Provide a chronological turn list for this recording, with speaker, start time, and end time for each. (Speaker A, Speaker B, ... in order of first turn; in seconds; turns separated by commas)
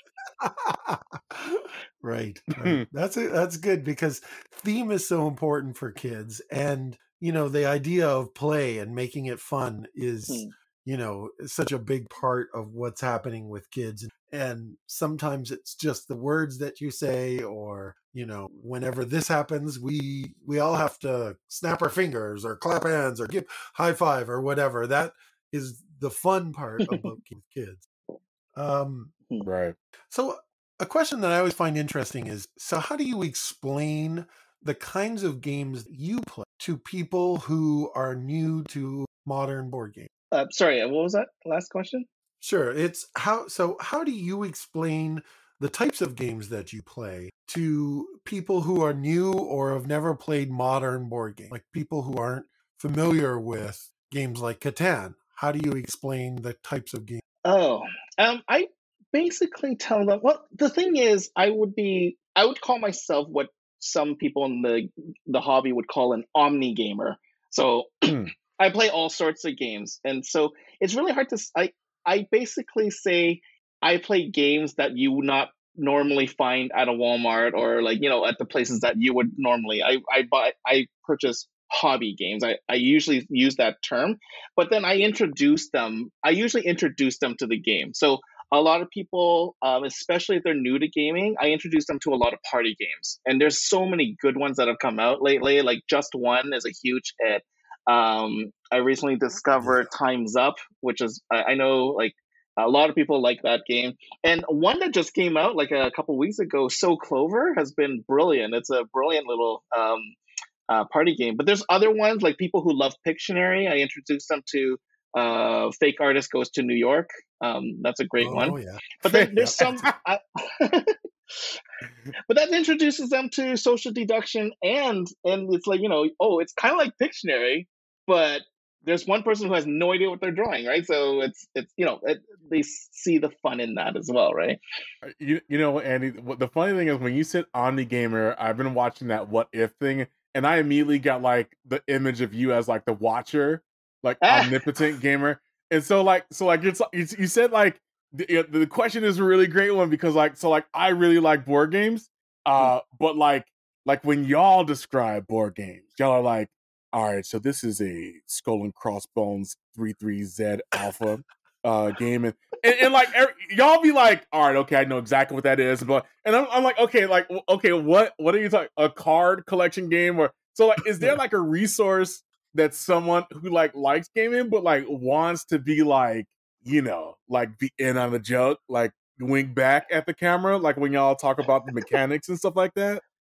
Speaker A: 0.4-27.8, Speaker B: 2.6-2.8, Speaker A: 28.5-29.1, Speaker B: 29.4-29.7, Speaker A: 30.1-40.1, Speaker C: 40.3-42.0, Speaker A: 42.4-57.2, Speaker C: 57.4-67.9, Speaker B: 68.0-68.3, Speaker C: 68.5-110.2, Speaker A: 99.6-99.9, Speaker C: 110.7-121.5, Speaker A: 118.2-118.8, Speaker B: 119.0-119.9, Speaker A: 119.3-119.6, Speaker C: 122.3-134.6, Speaker B: 135.0-183.0, Speaker C: 144.2-144.6